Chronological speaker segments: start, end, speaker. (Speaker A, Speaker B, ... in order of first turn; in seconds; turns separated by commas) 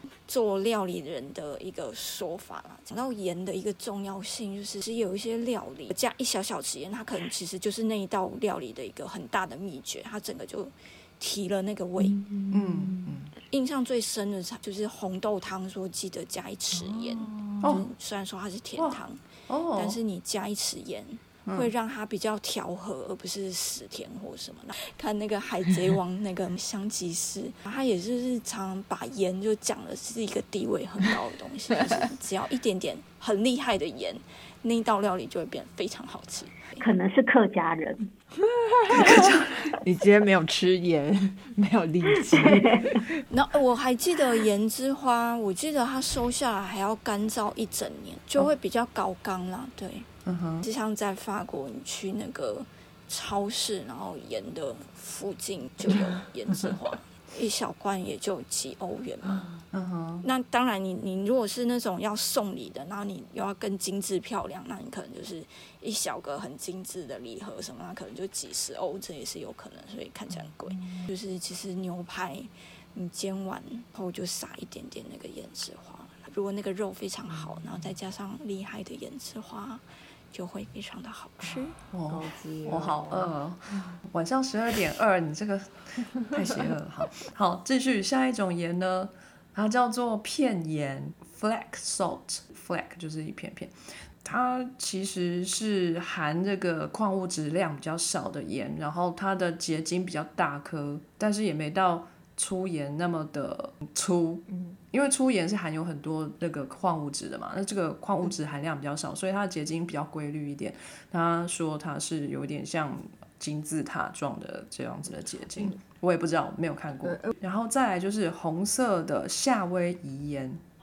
Speaker A: 0.3-12.2, Speaker B: 12.0-13.1, Speaker C: 12.5-13.3, Speaker A: 13.4-19.2, Speaker B: 16.7-17.7, Speaker C: 18.8-20.0, Speaker A: 19.7-36.8, Speaker C: 21.4-21.7, Speaker D: 36.8-38.1, Speaker B: 38.4-43.0, Speaker C: 38.9-39.5, Speaker D: 42.2-43.0, Speaker A: 43.3-50.1, Speaker C: 50.2-50.6, Speaker A: 50.6-59.6, Speaker C: 59.7-60.3, Speaker A: 60.2-81.8, Speaker B: 70.3-71.0, Speaker B: 77.4-77.7, Speaker B: 81.5-84.0, Speaker C: 81.9-93.7, Speaker C: 94.2-120.6, Speaker B: 104.5-104.8, Speaker B: 117.0-117.4